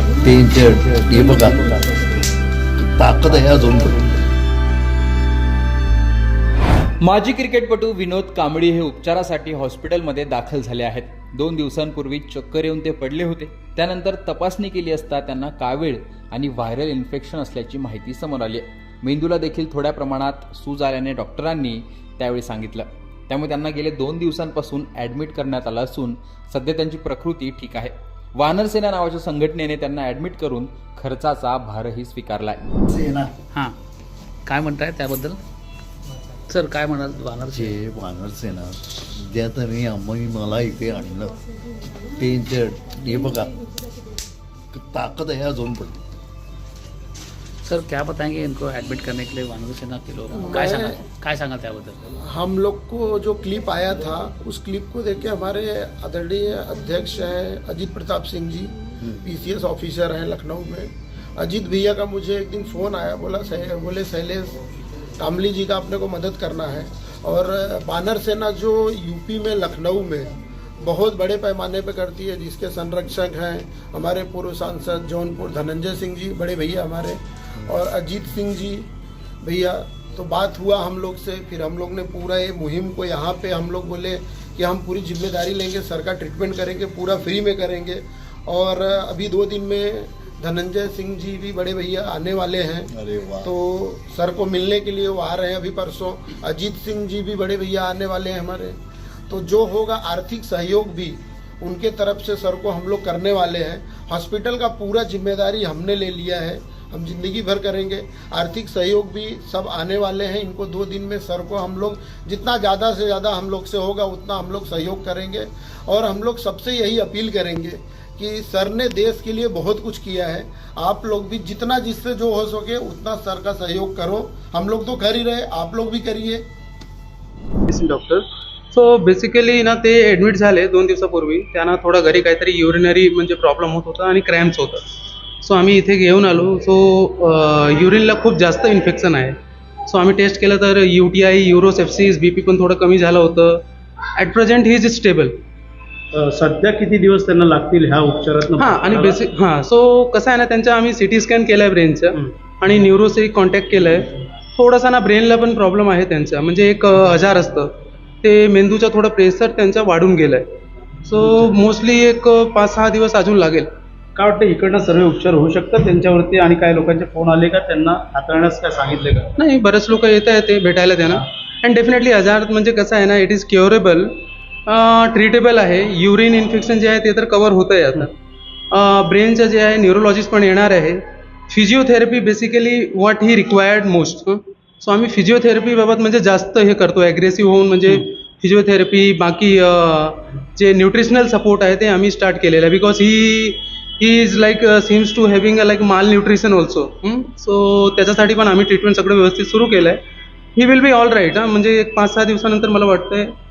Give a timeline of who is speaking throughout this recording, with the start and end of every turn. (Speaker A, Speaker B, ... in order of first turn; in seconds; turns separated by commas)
Speaker A: 0.2-2.0, Speaker A: 2.8-4.2, Speaker B: 7.0-32.6, Speaker A: 32.9-33.3, Speaker C: 34.5-35.4, Speaker C: 36.5-37.7, Speaker A: 37.5-41.4, Speaker A: 42.1-43.5, Speaker A: 44.7-46.0, Speaker C: 47.6-52.1, Speaker D: 50.3-51.0, Speaker D: 52.3-64.5, Speaker D: 65.2-78.9, Speaker D: 79.4-92.9, Speaker A: 92.9-93.5, Speaker D: 93.4-98.8, Speaker D: 99.3-126.4, Speaker E: 127.7-134.9, Speaker E: 135.4-143.6, Speaker E: 144.2-145.3, Speaker F: 146.1-149.2, Speaker E: 148.6-160.5, Speaker E: 161.1-163.7, Speaker F: 164.2-169.4, Speaker E: 169.4-178.1, Speaker E: 178.7-200.0, Speaker E: 200.5-203.3